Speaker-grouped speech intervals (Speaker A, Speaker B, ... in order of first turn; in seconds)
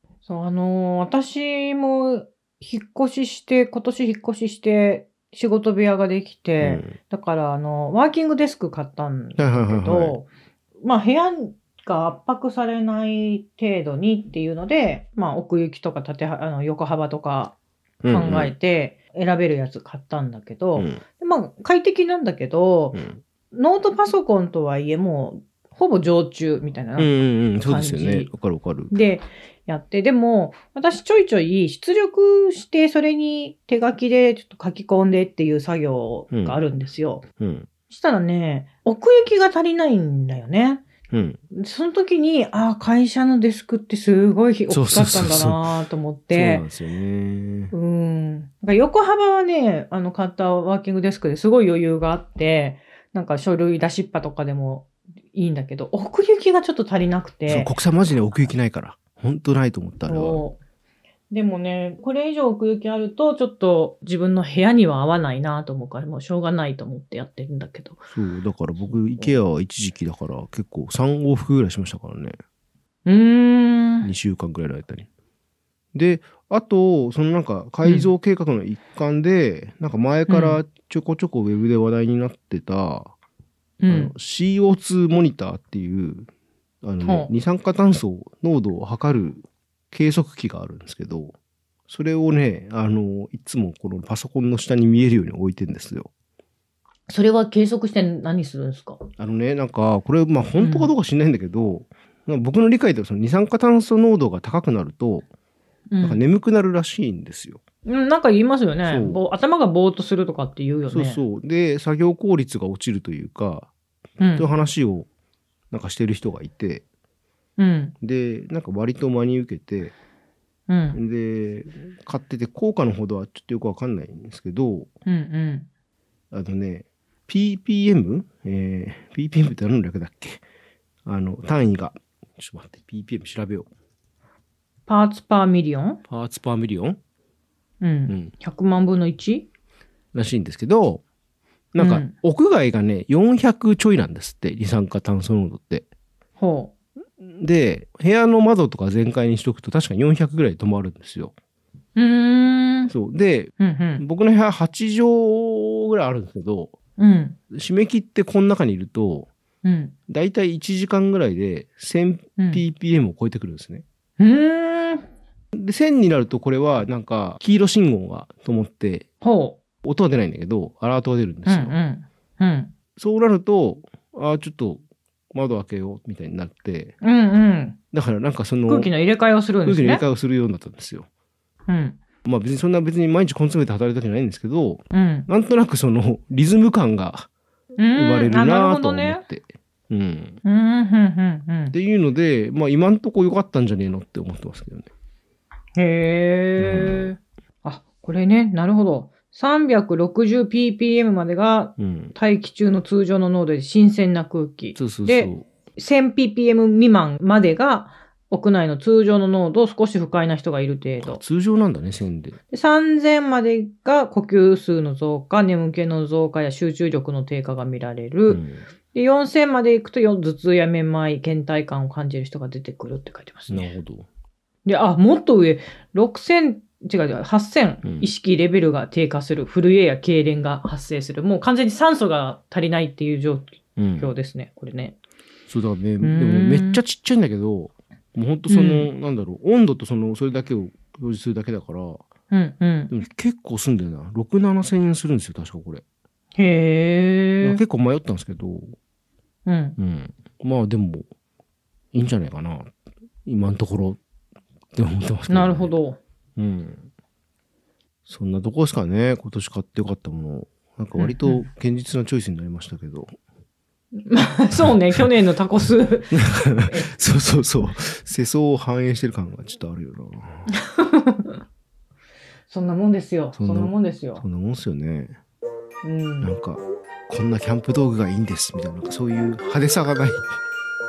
Speaker A: 0.2-10.3, 10.8-17.6, 18.1-27.1, 27.6-28.3, 28.9-37.3, 37.9-40.9, 41.5-46.7, 47.7-57.8, 60.1-60.6, 61.3-68.0, 68.8-69.4, 73.0-74.1, 77.8-78.1, 80.3-80.6, 83.8-84.1, 87.0-87.3, 97.1-99.0, 100.6-100.9, 105.9-106.2, 107.9-111.2, 114.2-114.5, 117.6-117.9, 120.7-121.0, 125.1-125.7, 134.9-136.0, 137.8-139.5, 141.8-142.1, 146.4-146.7, 152.0-152.9, 153.6-154.0, 157.0-157.4, 159.6-159.9, 162.4-162.6, 164.2-165.1, 169.2-169.6, 171.5-172.7, 177.0-177.8, 178.7-180.0, 181.7-182.0, 184.9-185.3, 187.8-189.2, 190.4-191.8, 195.8-211.2, 212.5-218.4, 218.9-223.7, 224.6-235.0, 236.0-236.8, 238.5-238.9, 242.3-242.9, 246.4-247.6, 249.5-249.8, 255.3-256.0, 261.0-261.4, 264.0-266.9, 270.5-271.4, 272.5-274.2, 275.8-276.3
Speaker B: 6.6-7.0, 9.4-10.2, 18.0-18.5, 20.8-21.1, 22.9-23.2, 27.0-28.9, 36.3-36.6, 37.3-37.8, 41.1-41.4, 44.7-45.6, 46.3-47.7, 57.5-60.4, 68.1-72.3, 74.0-75.1, 75.9-83.1, 83.9-86.3, 86.8-91.3, 91.9-96.1, 99.1-105.2, 106.0-107.6, 108.9-109.2, 110.9-113.7, 114.3-115.1, 115.7-116.8, 118.0-119.9, 120.9-124.9, 126.3-130.4, 131.0-133.7, 136.1-137.0, 138.1-138.3, 140.1-141.0, 141.7-145.9, 147.2-151.3, 152.9-156.8, 157.5-159.3, 160.0-163.8, 165.5-169.1, 169.8-171.8, 172.9-174.8, 175.3-177.0, 177.9-178.9, 179.6-181.1, 182.2-187.3, 187.9-190.4, 191.7-194.9, 196.6-197.1, 201.8-202.1, 204.8-205.5, 211.0-212.4, 218.3-218.6, 223.5-224.1, 227.8-228.1, 233.8-234.1, 235.5-242.1, 242.9-245.8, 247.4-248.8, 249.8-251.1, 251.9-252.7, 253.2-254.0, 254.7-255.7, 256.4-256.9, 258.1-263.1, 264.5-265.0, 266.1-270.4, 273.3-275.2, 276.2-280.3